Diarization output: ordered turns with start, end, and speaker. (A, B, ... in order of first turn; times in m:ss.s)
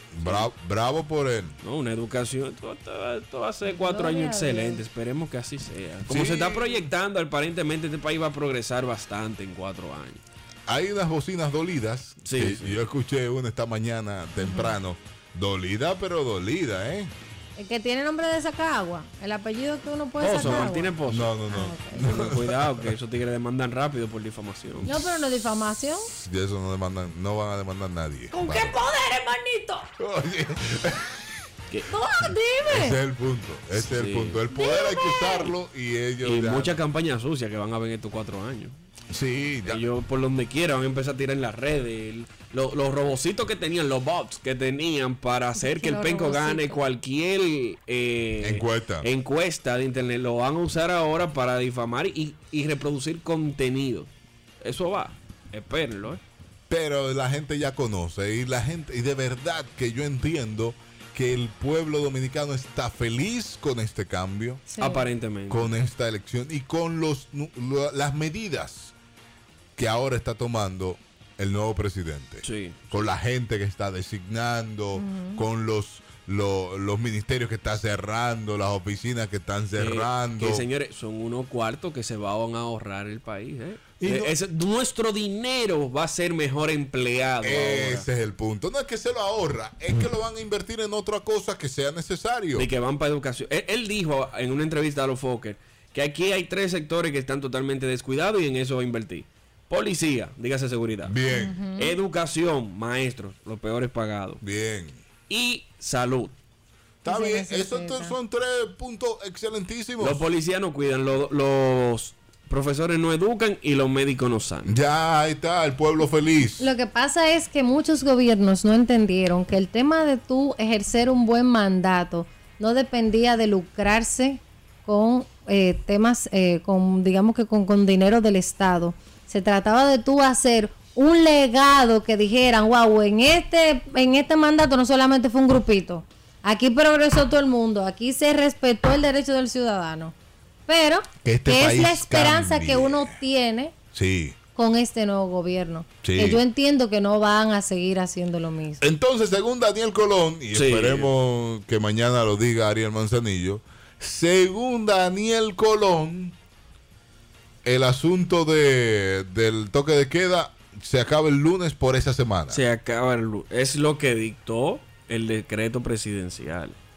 0:00.1-0:01.5 A
0:00.2-0:00.5 B
0:01.6-0:10.2 B
0:03.6-0:04.8 C
0:06.1-0:06.9 A
0:10.7-0:17.1 A
0:12.2-0:12.8 B
0:14.4-0:14.7 C
0:17.6-0:20.9 C
0:20.2-0:21.4 B
0:20.4-0:22.6 A
0:21.5-0:22.1 C
0:22.0-0:24.9 B
0:24.8-0:26.1 C
0:26.1-0:28.8 A
0:28.3-0:29.9 C
0:30.0-0:31.2 A
0:31.9-0:33.0 C
0:32.7-0:36.8 A
0:33.7-0:34.4 B
0:34.5-0:35.5 C
0:36.2-0:38.8 B
0:39.1-0:39.8 A
0:39.6-0:54.1 B
0:45.6-0:46.9 C
0:48.4-0:49.1 A
0:54.6-0:56.2 B
0:56.7-1:04.6 A
1:04.7-1:05.0 C
1:04.8-1:05.7 B
1:05.5-1:08.9 A
1:09.8-1:20.6 A
1:12.4-1:12.8 B
1:14.9-1:15.4 C
1:19.8-1:28.1 B
1:24.0-1:24.3 A
1:27.4-1:32.7 A
1:32.5-1:41.1 B
1:41.1-1:41.5 A
1:41.3-1:42.0 C
1:41.8-1:44.4 B
1:44.4-1:45.0 A
1:45.3-1:46.3 B
1:47.0-1:50.2 A
1:47.0-1:48.2 C
1:50.0-1:54.7 B
1:54.6-1:56.7 A
1:56.6-2:20.1 C
2:20.7-2:23.7 C
2:21.2-2:23.2 A
2:23.9-2:24.4 A
2:24.6-2:28.8 C
2:26.0-2:26.4 A
2:28.8-2:36.3 A
2:30.5-2:31.1 B
2:37.6-2:42.6 A
2:42.5-2:46.8 B